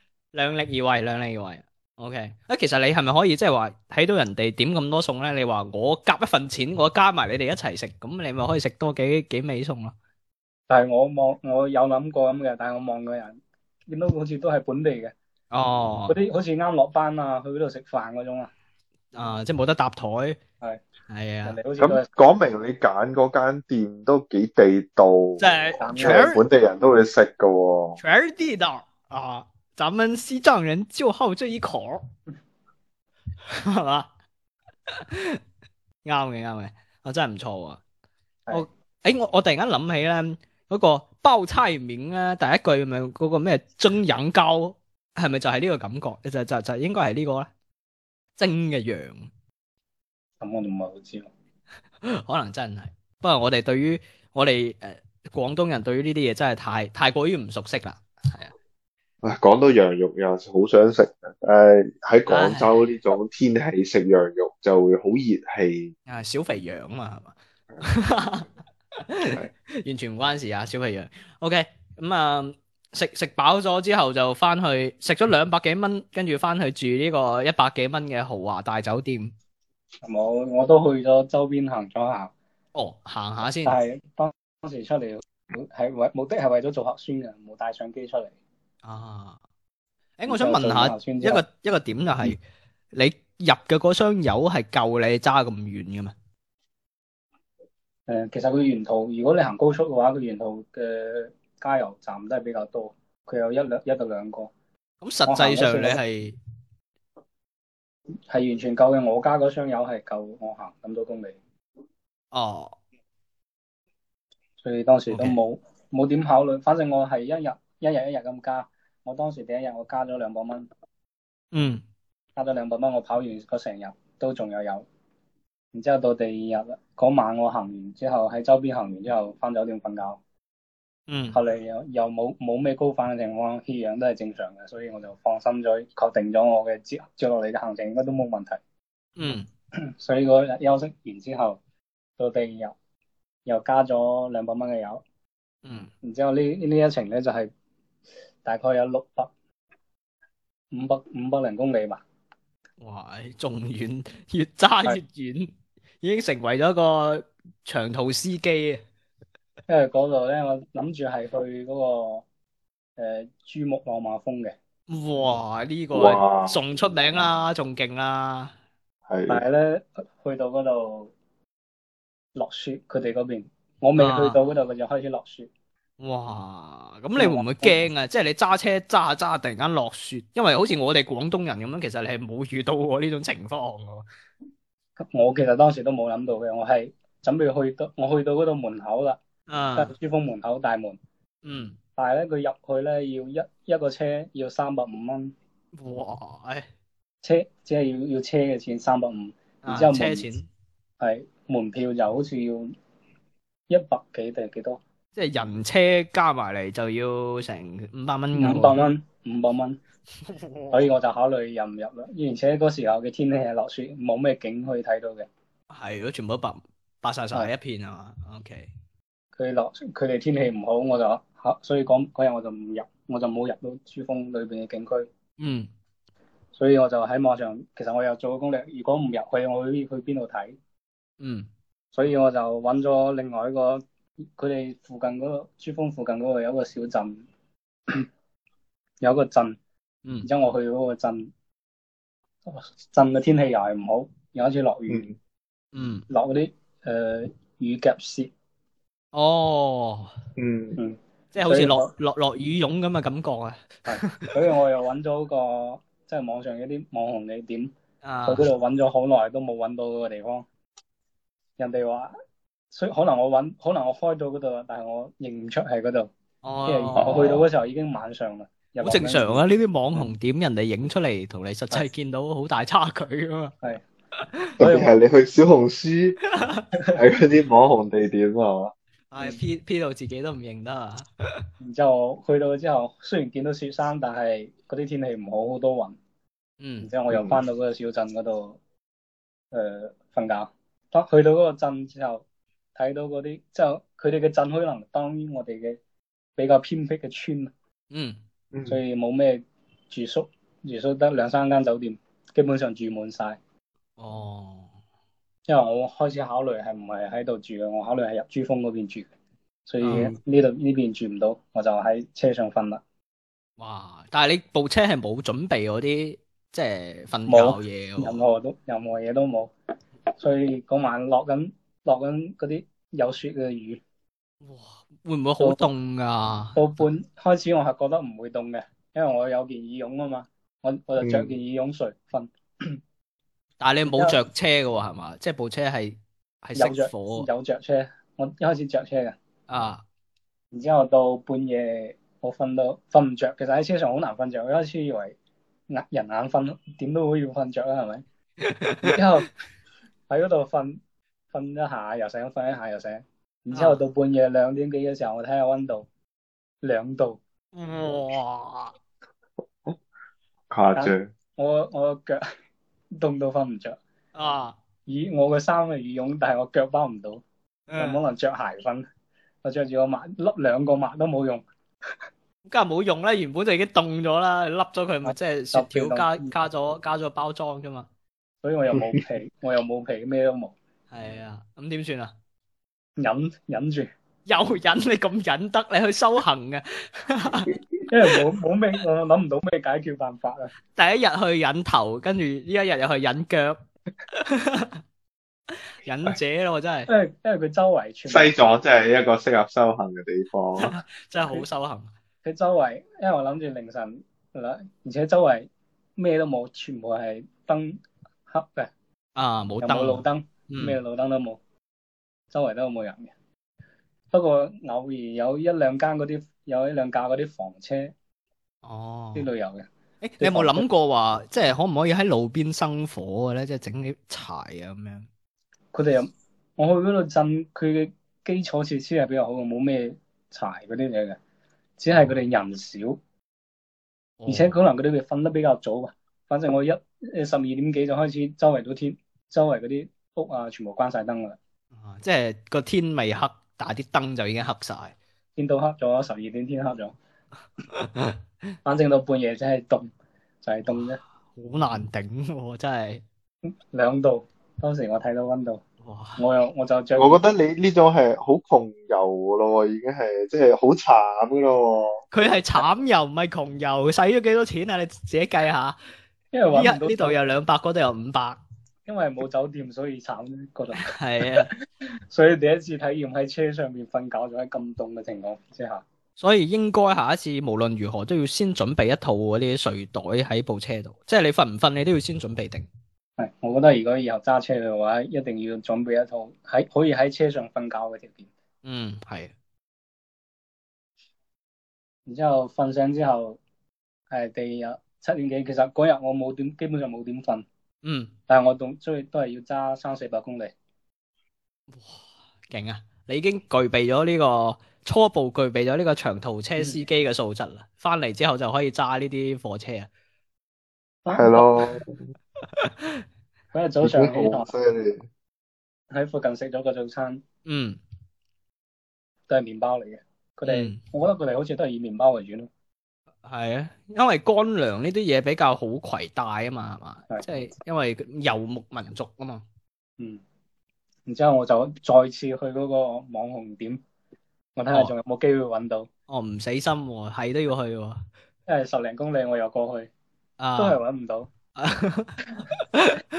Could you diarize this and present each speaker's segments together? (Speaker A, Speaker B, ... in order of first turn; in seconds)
Speaker A: 0.3-9.9, 15.5-16.1, 19.1-20.4, 21.1-21.6, 25.4-26.4, 28.0-32.1, 33.5-34.1, 34.9-35.4, 36.0-37.8, 38.5-47.5, 48.4-49.3, 52.0-58.5, 62.3-62.9, 66.1-68.5, 69.0-79.3, 82.7-83.8, 88.8-89.4, 90.2-92.4, 92.9-96.1, 105.0-106.3, 112.3-112.8, 115.1-115.4, 121.5-121.8, 131.1-131.4, 139.2-139.5, 145.6-145.9, 152.8-158.8, 164.9-168.5, 174.0-174.3, 176.0-184.1, 189.5-189.9, 191.4-191.8, 195.7-196.7, 199.6-200.5, 205.2-208.8, 210.3-210.9, 215.7-218.7, 225.4-225.7, 231.2-231.5, 245.7-246.0, 249.1-250.1, 251.3-254.3, 258.0-258.4, 266.4-267.4, 268.8-273.5, 276.4-276.6, 279.1-281.1, 286.6-286.9, 297.9-298.2, 304.0-304.7, 309.8-310.1, 313.6-318.2, 324.4-326.6, 333.6-337.3, 339.5-339.8, 348.4-349.0, 353.5-353.8, 357.5-358.7, 364.1-364.6, 367.7-368.0, 372.5-377.9, 380.9-382.1, 384.2-387.5, 390.7-393.6, 394.1-394.8, 395.8-396.9, 400.6-401.9, 409.1-410.8, 418.6-419.3, 420.0-425.1, 434.2-434.6, 441.8-444.9, 447.7-448.1, 451.4-453.0, 455.8-456.2, 462.1-465.8, 466.5-468.4, 470.8-471.5, 476.2-482.7, 488.6-489.3, 497.8-498.1, 501.7-509.9, 512.5-512.9, 517.5-517.8, 520.5-520.8, 523.2-529.4, 536.1-538.0, 540.4-540.8, 541.5-542.1, 542.7-543.0
Speaker B: 10.7-13.4, 13.9-15.1, 16.1-18.5, 21.4-22.1, 25.8-26.3, 50.4-51.3, 80.0-82.3, 83.6-88.3, 90.3-91.4, 98.1-104.5, 105.3-106.0, 108.3-111.4, 114.6-120.7, 122.3-124.8, 125.7-130.2, 131.3-138.6, 139.8-141.6, 142.2-142.7, 143.4-145.0, 146.0-147.5, 148.4-149.3, 150.7-152.0, 159.7-162.2, 163.0-164.5, 169.3-171.1, 172.3-175.5, 177.2-177.8, 185.0-189.2, 189.8-191.0, 191.9-195.3, 197.2-200.2, 201.0-202.7, 203.7-204.8, 208.3-209.8, 210.7-215.3, 219.4-225.1, 226.6-230.6, 231.9-237.2, 239.0-239.6, 240.2-241.3, 242.4-245.1, 246.1-248.3, 250.8-251.9, 253.9-257.7, 258.2-260.4, 261.6-262.1, 262.7-266.1, 266.6-269.4, 274.6-274.9, 281.6-286.0, 286.8-288.6, 289.5-292.2, 292.7-295.8, 296.4-297.5, 298.7-303.4, 305.5-309.1, 309.7-312.8, 317.3-319.5, 320.2-323.8, 326.5-332.8, 333.9-334.2, 336.6-339.1, 340.5-345.1, 345.7-348.0, 348.8-349.3, 350.1-350.8, 351.3-355.9, 356.6-357.2, 360.7-362.2, 362.9-363.8, 364.9-367.2, 367.8-368.9, 369.4-371.4, 375.0-376.3, 378.4-380.6, 383.0-383.9, 387.9-390.5, 396.9-398.4, 402.2-408.7, 409.6-411.4, 412.3-413.1, 414.1-417.9, 419.1-419.7, 420.2-420.6, 425.7-431.2, 431.8-433.0, 434.3-441.4, 445.4-446.9, 448.6-449.9, 450.4-451.0, 453.7-455.6, 456.2-457.2, 466.3-467.1, 468.9-471.6, 472.1-475.8, 483.2-488.3, 492.1-493.4, 494.1-497.4, 498.3-500.5, 511.0-511.6, 513.5-514.5, 515.9-517.2, 519.3-522.5, 531.1-533.8, 534.5-535.9, 538.5-539.9, 540.6-541.3
Speaker C: 21.8-28.0, 59.2-65.9, 165.9-166.6, 169.1-169.4, 250.4-250.8, 267.0-267.4, 274.6-276.2, 276.9-278.7, 287.1-287.4, 298.5-298.8, 331.0-331.3, 360.5-361.1, 398.1-400.7, 457.0-462.6, 511.1-511.9, 513.8-515.0